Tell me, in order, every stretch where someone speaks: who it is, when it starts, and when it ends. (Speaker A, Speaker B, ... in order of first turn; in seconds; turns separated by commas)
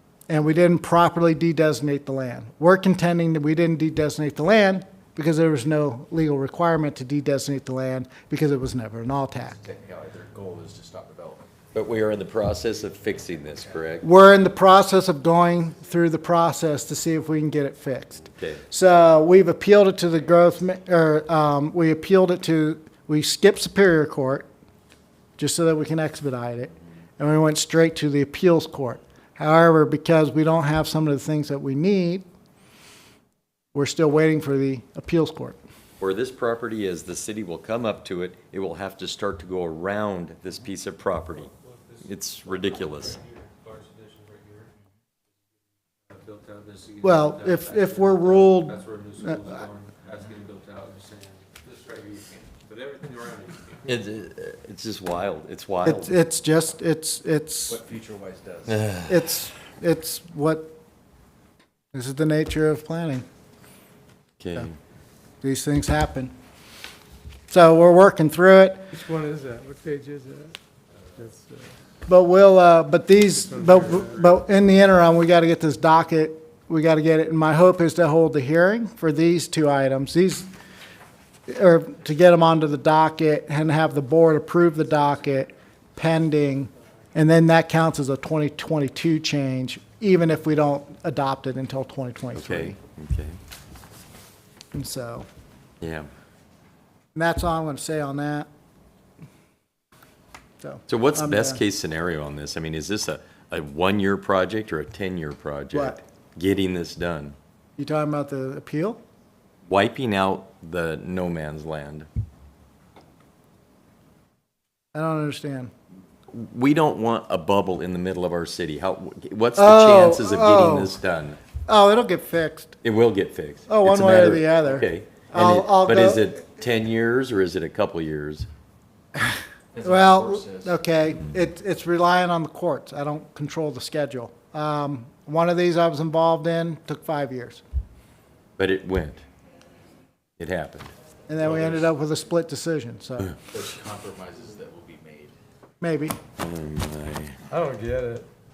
Speaker A: 0.3-9.6, Speaker B: 9.5-11.6, Speaker C: 11.7-14.1, Speaker A: 14.0-24.5, Speaker C: 18.3-18.6, Speaker A: 25.4-32.3, Speaker A: 33.7-35.6, Speaker C: 36.0-41.5, Speaker C: 42.0-43.2, Speaker D: 43.1-44.7, Speaker D: 46.1-53.8, Speaker A: 47.0-49.4, Speaker C: 53.9-56.2, Speaker A: 55.8-57.8, Speaker B: 57.7-58.8, Speaker C: 58.7-59.2, Speaker A: 59.1-60.7, Speaker A: 61.9-63.2, Speaker C: 64.4-64.8, Speaker A: 65.4-66.3, Speaker A: 67.5-68.9, Speaker E: 68.9-70.6, Speaker E: 71.2-71.7, Speaker A: 72.1-80.5, Speaker E: 73.5-74.2, Speaker A: 81.5-92.8, Speaker C: 92.3-93.4, Speaker A: 94.7-95.3, Speaker C: 95.8-96.1, Speaker A: 97.2-98.5, Speaker A: 100.6-101.6, Speaker C: 100.9-107.4, Speaker A: 105.7-106.0, Speaker A: 107.8-109.0, Speaker C: 109.7-112.1, Speaker A: 114.9-115.7, Speaker C: 116.3-121.4, Speaker A: 119.6-120.9, Speaker A: 121.7-122.8, Speaker C: 122.8-128.5, Speaker A: 123.7-126.4, Speaker B: 129.7-130.8, Speaker A: 129.8-137.6, Speaker C: 138.6-139.2, Speaker C: 140.4-140.9, Speaker A: 141.3-143.4, Speaker B: 141.4-141.9, Speaker B: 143.5-145.3, Speaker A: 145.8-146.2, Speaker C: 146.4-147.4, Speaker E: 147.5-148.3